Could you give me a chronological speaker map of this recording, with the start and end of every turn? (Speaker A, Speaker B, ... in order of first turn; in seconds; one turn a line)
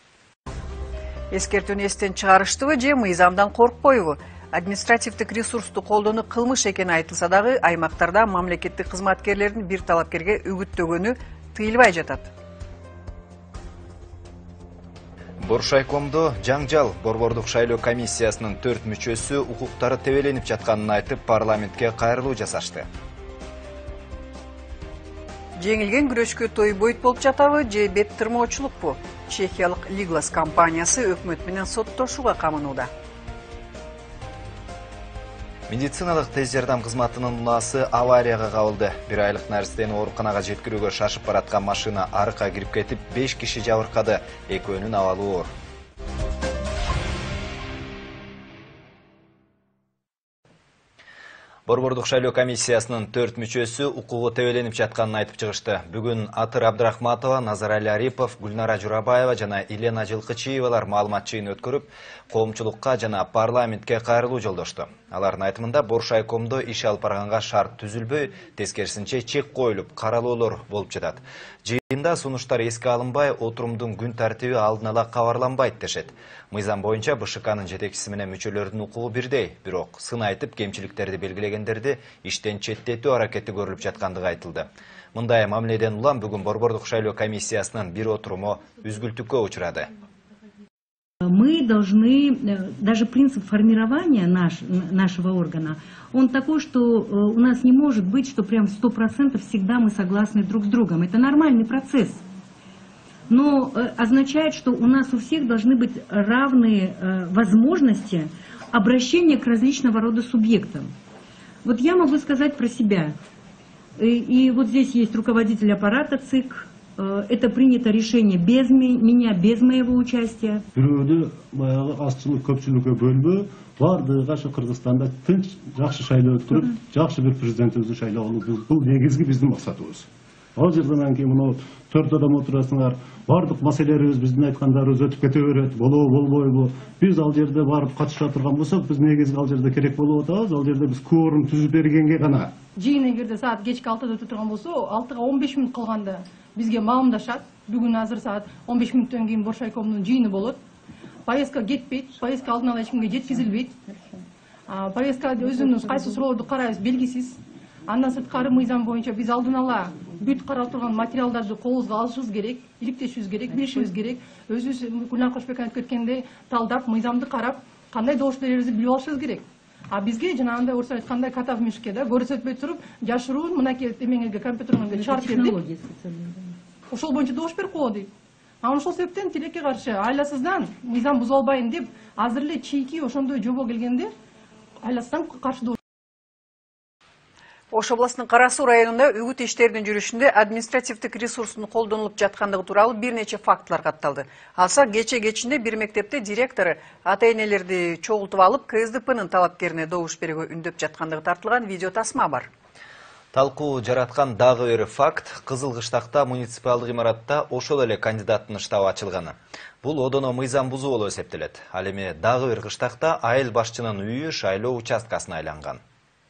Speaker A: 1.3-12.3
Speaker B: 15.4-22.9
Speaker A: 25.6-32.9
Speaker B: 35.7-45.5
Speaker B: 51.7-89.9
Speaker C: 91.2-102.2
Speaker C: 103.3-110.9
Speaker C: 111.6-113.2
Speaker C: 114.0-120.6
Speaker D: 120.7-142.5
Speaker E: 142.8-150.6
Speaker E: 151.2-153.7
Speaker E: 154.7-175.6
Speaker C: 174.9-176.6
Speaker E: 176.9-178.1
Speaker E: 178.6-184.1
Speaker E: 184.8-185.8
Speaker A: 187.7-202.5
Speaker B: 203.3-215.8